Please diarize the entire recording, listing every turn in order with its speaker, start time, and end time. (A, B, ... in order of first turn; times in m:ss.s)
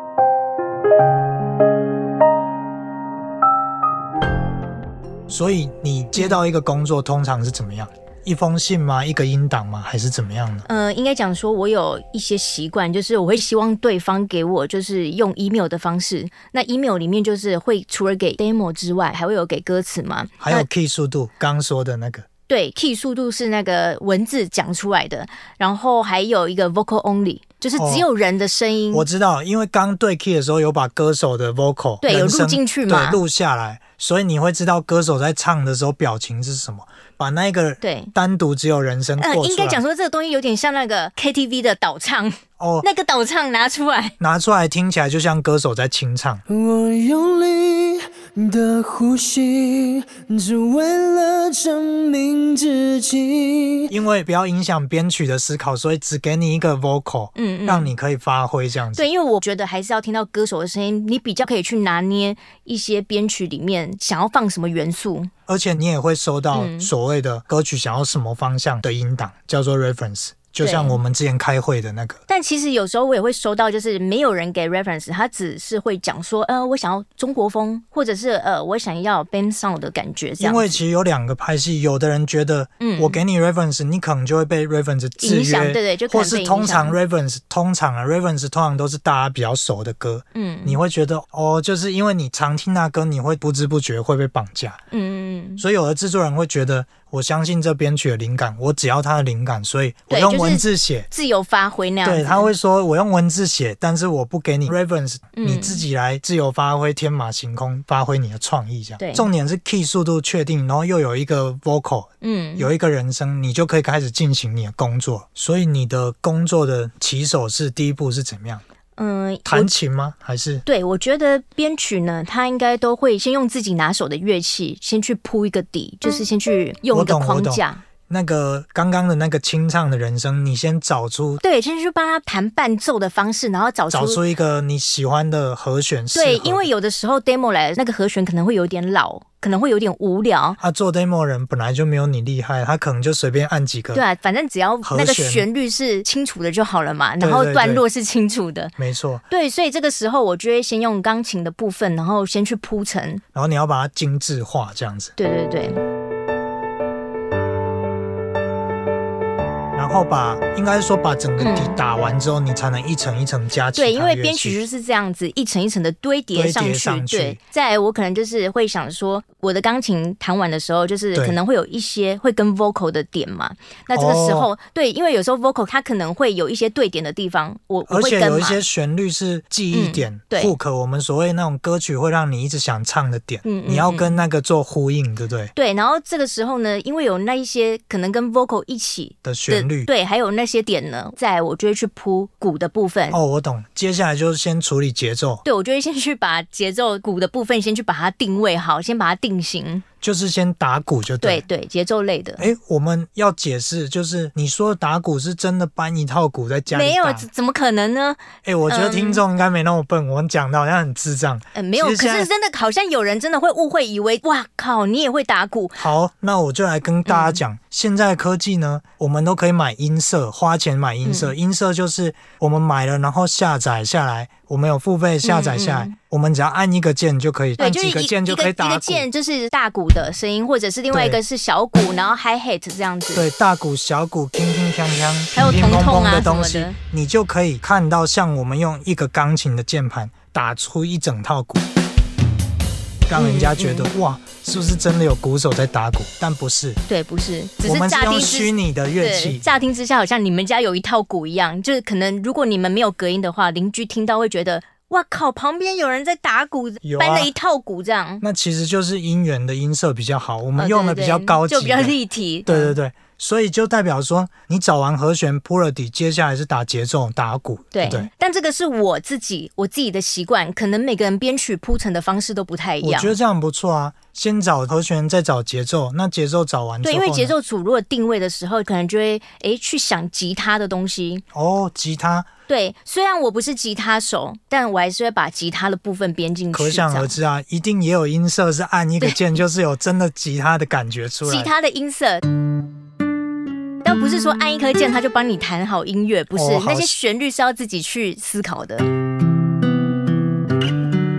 0:05.3-0:10.6 A
0:10.7-0:20.6 B
0:20.4-0:22.3 A
0:22.5-0:29.0 B
0:27.8-0:28.0 A
0:28.9-0:39.8 A
0:32.0-0:33.2 B
0:37.8-0:38.1 B
0:39.2-0:44.1 B
0:42.6-0:42.8 A
0:44.2-0:46.4 A
0:46.5-0:54.0 C
0:53.9-0:59.0 A
0:57.4-0:57.9 B
0:58.9-1:05.3 B
1:05.5-1:12.2 A
1:06.5-1:06.9 B
1:10.6-1:11.0 B
1:12.3-1:20.8 B
1:20.4-1:34.8 A
1:22.8-1:23.2 B
1:25.2-1:27.0 B
1:30.3-1:30.8 B
1:34.9-1:35.6 B
1:35.6-1:41.1 A
1:40.1-1:42.5 B
1:42.0-1:58.6 A
1:45.3-1:45.8 B
1:49.0-1:49.3 B
1:52.2-1:52.7 B
1:59.0-1:59.7 B
1:59.4-2:00.6 A
2:00.6-2:07.8 B
2:06.9-2:11.4 A
2:11.4-2:14.2 B
2:13.9-2:16.6 A
2:16.1-2:20.6 B
2:20.6-2:24.0 A
2:23.9-2:28.7 B
2:24.8-2:25.4 A
2:27.2-2:27.8 A
2:28.8-2:29.2 A
2:29.3-2:33.2 B
2:33.3-2:35.1 A
2:35.2-2:35.8 B
2:39.7-2:44.6 A
2:41.4-2:41.8 B
2:43.8-2:58.6 B
2:46.3-2:47.4 A
2:53.9-2:54.5 A
2:57.9-3:05.5 A
2:59.7-3:00.5 B
3:03.4-3:04.2 B
3:05.6-3:13.2 B
3:09.2-3:09.9 A
3:13.1-3:15.4 A
3:15.4-3:19.8 B
3:20.0-3:21.4 A
3:21.2-3:22.5 B
3:22.4-3:27.3 A
3:26.7-3:29.2 B
3:28.4-3:32.3 A
3:31.5-3:35.8 B
3:35.8-3:49.0 A
3:37.0-3:37.4 B
3:41.0-3:41.3 B
3:45.2-3:45.9 B
3:47.6-3:53.2 B
3:50.9-3:51.2 A
3:53.1-4:01.6 A
3:55.3-3:56.8 B
4:03.1-4:06.8 A
4:03.2-4:03.9 B
4:06.9-4:18.2 B
4:07.6-4:09.4 A
4:16.8-4:17.3 A
4:18.2-4:28.1 A
4:20.6-4:22.7 B
4:27.7-4:33.1 B
4:32.8-4:37.3 A
4:36.8-4:41.2 B
4:41.3-4:42.3 A
4:42.5-4:47.1 B
4:46.5-4:51.5 A
4:51.2-4:52.2 B
4:53.8-4:58.9 B
4:56.3-4:57.0 A